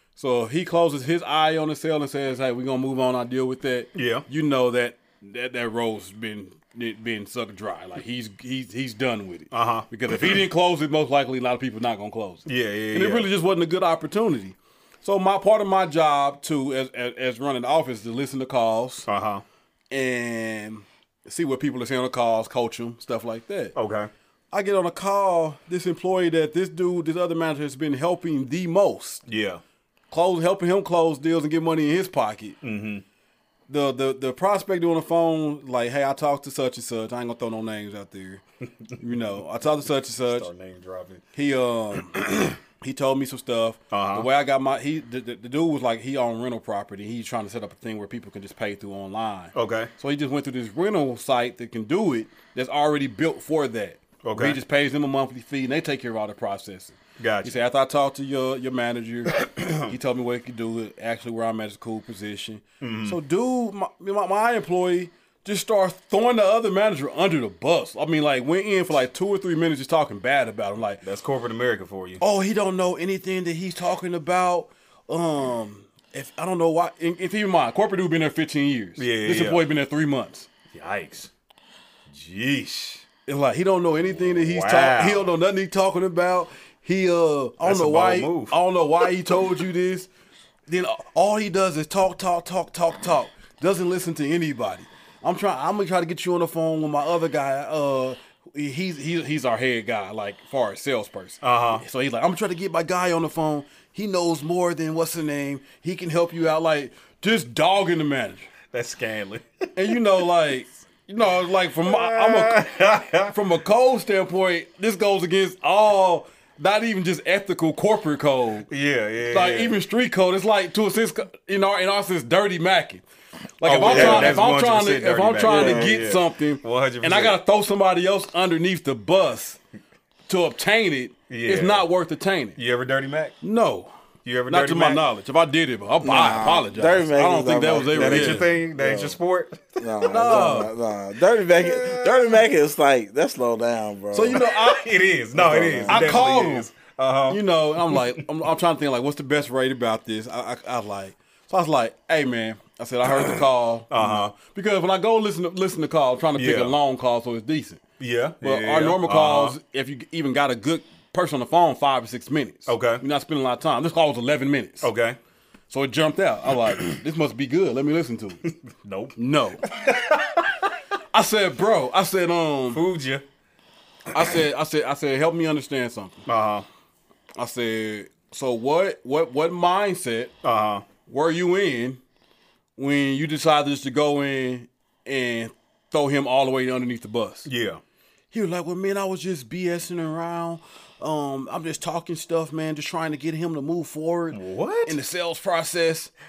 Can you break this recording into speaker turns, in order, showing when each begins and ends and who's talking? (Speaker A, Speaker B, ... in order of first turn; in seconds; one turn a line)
Speaker A: 0.1-19.1
Speaker B: 3.9-4.2
Speaker B: 9.5-10.4
Speaker B: 12.4-13.3
Speaker B: 19.1-19.4
Speaker A: 19.9-23.7
Speaker B: 23.7-24.1
Speaker A: 24.5-29.2
Speaker B: 29.3-29.6
Speaker A: 30.1-32.6
Speaker B: 32.6-33.0
Speaker A: 33.7-38.4
Speaker A: 39.0-40.5
Speaker B: 40.2-41.2
Speaker A: 41.3-42.2
Speaker B: 42.1-42.5
Speaker A: 42.8-71.0
Speaker B: 43.9-44.3
Speaker B: 49.5-49.9
Speaker B: 54.2-54.6
Speaker B: 57.2-57.6
Speaker B: 59.5-59.7
Speaker B: 62.8-63.2
Speaker B: 71.0-72.2
Speaker A: 72.2-80.5
Speaker B: 79.0-79.7
Speaker B: 80.7-81.3
Speaker B: 82.1-83.0
Speaker A: 83.3-90.1
Speaker B: 84.0-85.3
Speaker B: 87.6-88.6
Speaker A: 90.7-108.5
Speaker B: 101.4-101.8
Speaker B: 108.7-110.0
Speaker A: 109.8-112.6
Speaker B: 111.8-113.3
Speaker A: 113.3-118.7
Speaker B: 118.7-119.8
Speaker A: 119.3-123.0
Speaker A: 123.6-129.6
Speaker B: 123.6-127.4
Speaker C: 123.8-124.4
Speaker C: 125.4-125.9
Speaker A: 130.3-132.6
Speaker B: 131.3-131.8
Speaker B: 132.6-133.3
Speaker A: 133.4-133.9
Speaker B: 134.2-135.0
Speaker A: 134.5-138.5
Speaker C: 136.0-139.2
Speaker B: 137.9-140.3
Speaker C: 139.8-144.4
Speaker A: 140.1-140.7
Speaker B: 141.6-142.4
Speaker A: 144.1-144.9
Speaker B: 144.3-148.1
Speaker C: 145.3-146.2
Speaker A: 145.9-146.7
Speaker A: 147.3-157.8
Speaker B: 153.9-154.3
Speaker B: 156.3-156.8
Speaker B: 158.0-159.6
Speaker A: 158.4-164.9
Speaker B: 162.7-163.0
Speaker B: 164.8-165.2
Speaker A: 165.7-168.4
Speaker B: 168.7-170.7
Speaker A: 169.2-169.6
Speaker A: 171.1-172.8
Speaker B: 172.7-173.2
Speaker A: 174.1-176.2
Speaker B: 176.3-176.7
Speaker A: 177.4-180.3
Speaker B: 180.4-180.8
Speaker A: 181.1-182.0
Speaker A: 182.8-187.5
Speaker B: 187.4-187.8
Speaker A: 188.3-196.1
Speaker B: 194.3-195.0